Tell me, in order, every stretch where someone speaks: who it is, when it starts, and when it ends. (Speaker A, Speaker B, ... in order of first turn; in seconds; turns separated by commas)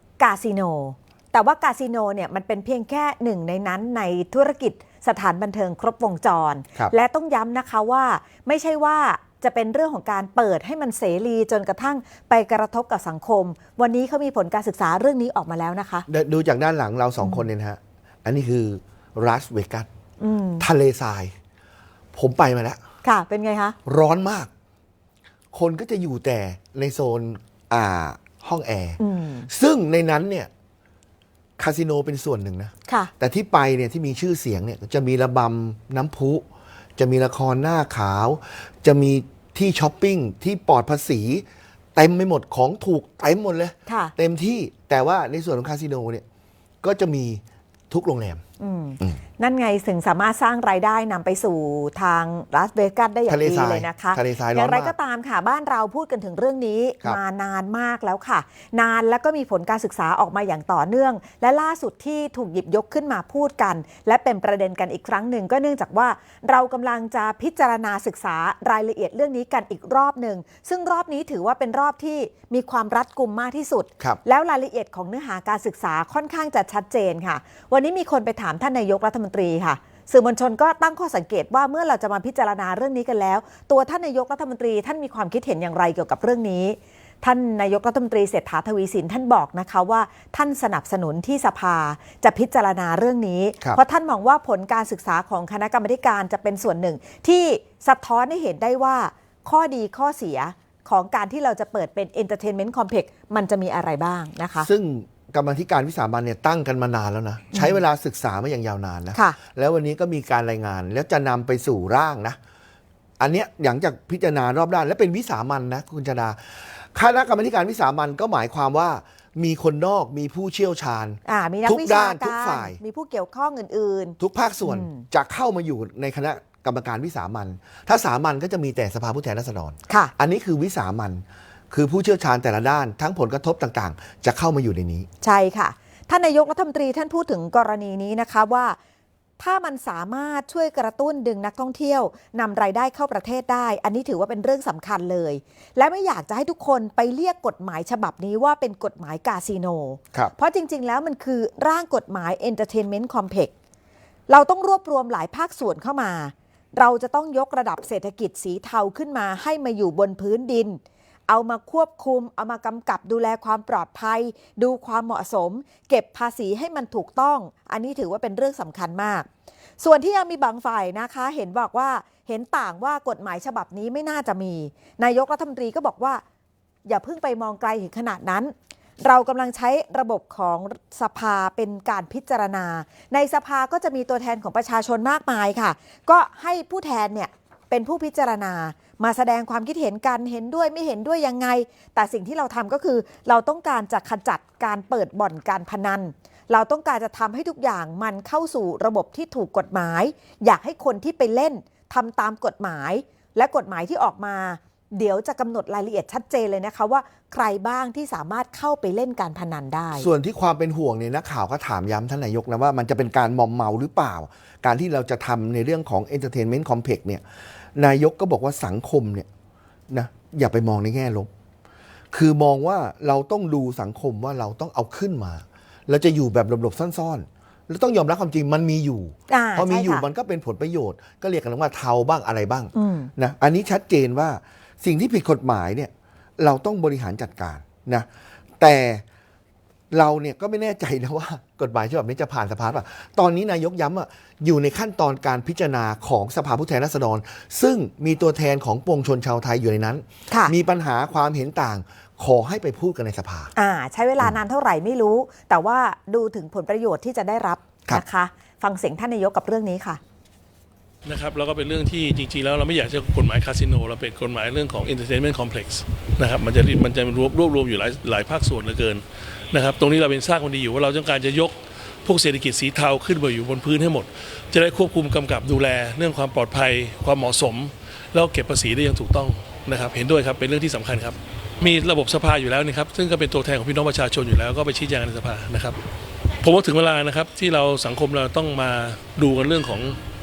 Speaker A: 0.2-16.1, Speaker B: 16.1-19.9, Speaker A: 20.2-20.7, Speaker B: 20.6-21.4, Speaker B: 22.1-22.8, Speaker A: 23.0-23.8, Speaker B: 23.9-24.5, Speaker B: 25.5-30.5, Speaker A: 29.0-29.5, Speaker B: 31.6-36.5, Speaker B: 37.0-46.2, Speaker A: 43.9-44.1, Speaker B: 46.8-48.4, Speaker A: 48.6-104.7, Speaker B: 53.3-54.9, Speaker B: 104.6-112.4, Speaker A: 107.5-107.8, Speaker B: 113.2-122.8, Speaker A: 121.2-125.0, Speaker B: 124.2-135.1, Speaker A: 135.2-138.8, Speaker A: 139.4-153.5, Speaker A: 154.3-169.3, Speaker A: 169.8-176.2, Speaker A: 176.9-210.1, Speaker B: 209.9-217.2, Speaker B: 217.8-219.3, Speaker B: 219.9-221.3, Speaker B: 222.1-238.1, Speaker A: 229.3-230.1, Speaker A: 232.8-233.1, Speaker B: 238.6-239.0, Speaker B: 239.9-253.5, Speaker A: 253.6-260.0, Speaker C: 261.1-285.8, Speaker C: 286.4-290.0